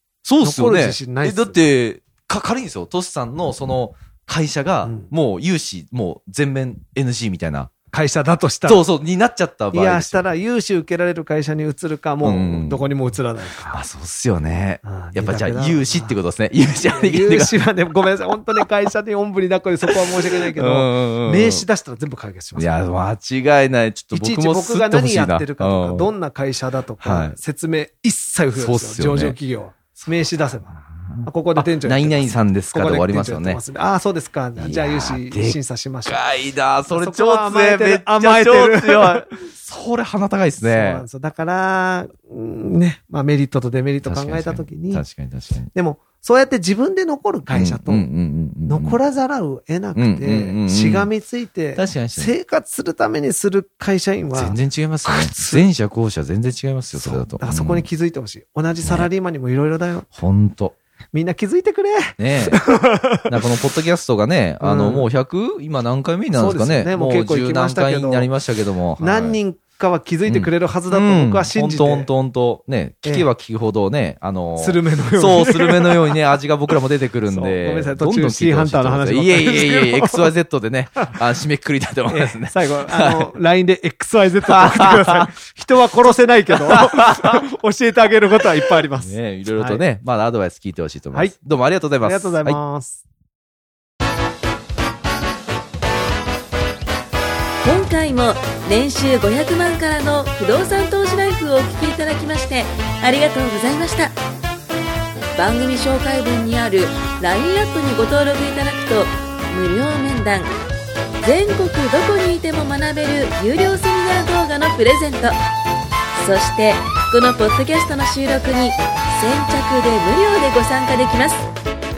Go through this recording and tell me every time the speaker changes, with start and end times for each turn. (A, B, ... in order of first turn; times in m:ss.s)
0:00.2-0:07.7 A
0:00.4-0:01.6 B
0:04.8-0:05.1 B
0:07.9-0:08.8 B
0:08.6-0:10.3 A
0:09.7-0:13.8 B
0:12.2-0:12.9 A
0:13.7-0:17.6 A
0:14.8-0:16.1 B
0:16.9-0:22.7 B
0:19.9-0:21.6 A
0:22.6-0:26.1 A
0:24.1-0:36.2 B
0:27.0-0:27.4 A
0:28.6-0:29.4 A
0:30.8-0:33.6 A
0:34.6-0:41.0 A
0:36.9-0:39.4 B
0:40.6-0:45.0 B
0:44.0-0:45.7 A
0:45.7-0:48.1 B
0:47.5-0:49.0 A
0:48.7-0:55.6 B
0:49.9-0:51.1 A
0:51.8-0:52.3 A
0:54.3-0:57.9 A
0:56.9-1:00.1 B
0:58.8-0:59.1 A
1:00.1-1:00.8 A
1:01.1-1:03.3 B
1:02.2-1:02.6 A
1:03.2-1:09.4 A
1:04.6-1:05.1 B
1:06.4-1:08.3 B
1:09.0-1:12.1 B
1:10.3-1:23.3 A
1:14.6-1:16.2 B
1:17.3-1:20.3 B
1:22.1-1:29.8 B
1:24.5-1:25.3 A
1:26.6-1:27.4 A
1:29.0-1:32.6 A
1:32.0-1:33.0 B
1:37.6-1:44.1 C
1:45.4-1:50.5 C
1:51.2-1:55.4 C
1:56.1-2:01.4 C